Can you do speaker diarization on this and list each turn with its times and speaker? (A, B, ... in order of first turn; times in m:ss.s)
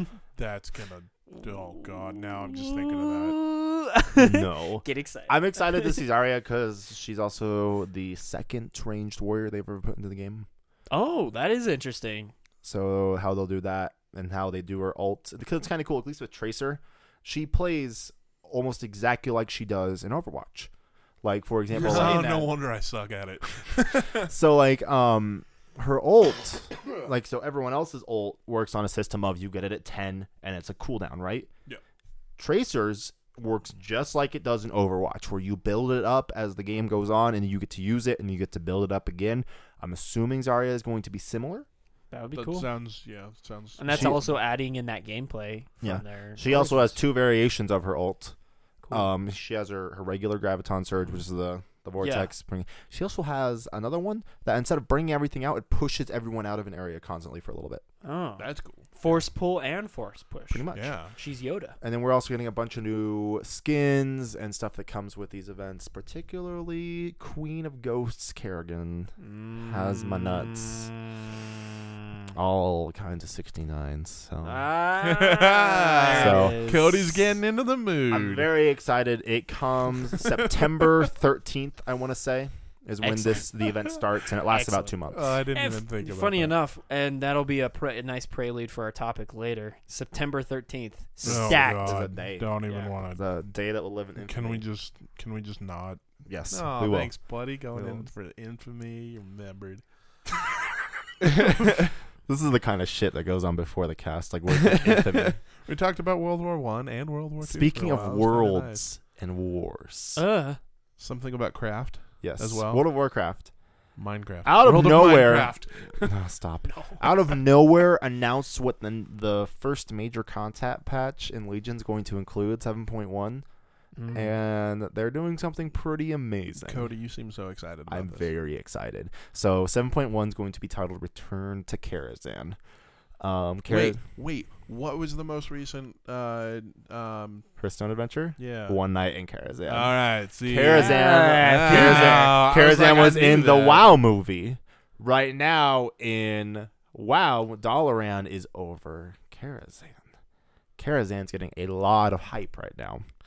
0:00.4-0:03.4 A
0:01.4-0:06.0 B
0:04.1-0:10.5 C
0:10.9-0:12.3 B
0:12.6-0:20.7 C
0:21.2-0:22.5 C
0:21.8-0:24.3 A
0:21.8-0:22.5 B
0:24.2-0:31.5 C
0:32.4-0:41.7 C
0:42.1-0:42.7 B
0:42.3-0:44.3 A
0:43.8-0:47.0 B
0:43.9-0:44.3 C
0:45.8-0:48.4 C
0:48.9-0:57.8 C
0:52.0-0:52.3 B
0:58.0-1:01.8 B
0:58.4-0:58.9 A
1:00.5-1:01.0 C
1:00.7-1:01.1 A
1:01.8-1:09.1 C
1:09.2-1:11.1 B
1:09.6-1:10.9 C
1:12.3-1:14.7 C
1:14.4-1:17.2 B
1:15.0-1:18.5 A
1:16.1-1:16.6 C
1:18.1-1:25.3 C
1:23.0-1:23.8 B
1:24.5-1:24.9 B
1:25.1-1:26.6 A
1:25.5-1:32.1 B
1:31.2-1:34.6 C
1:31.2-1:33.2 A
1:32.7-1:32.9 B
1:34.2-1:39.8 A
1:36.2-1:37.2 C
1:37.7-1:38.1 C
1:41.2-1:45.4 C
1:41.4-1:41.7 A
1:44.6-1:48.9 A
1:47.4-1:50.2 C
1:50.2-1:50.6 B
1:51.0-1:52.8 A
1:52.2-1:53.5 C
1:54.0-1:56.1 A
1:54.4-2:03.5 C
1:56.6-1:57.0 B
2:04.0-2:04.3 B
2:04.1-2:06.9 C
2:06.6-2:08.3 A
2:07.9-2:12.6 C
2:13.2-2:14.0 C
2:13.7-2:17.5 A
2:17.6-2:30.0 C
2:18.4-2:18.8 A
2:19.7-2:24.0 A
2:20.6-2:22.4 B
2:30.8-2:33.0 C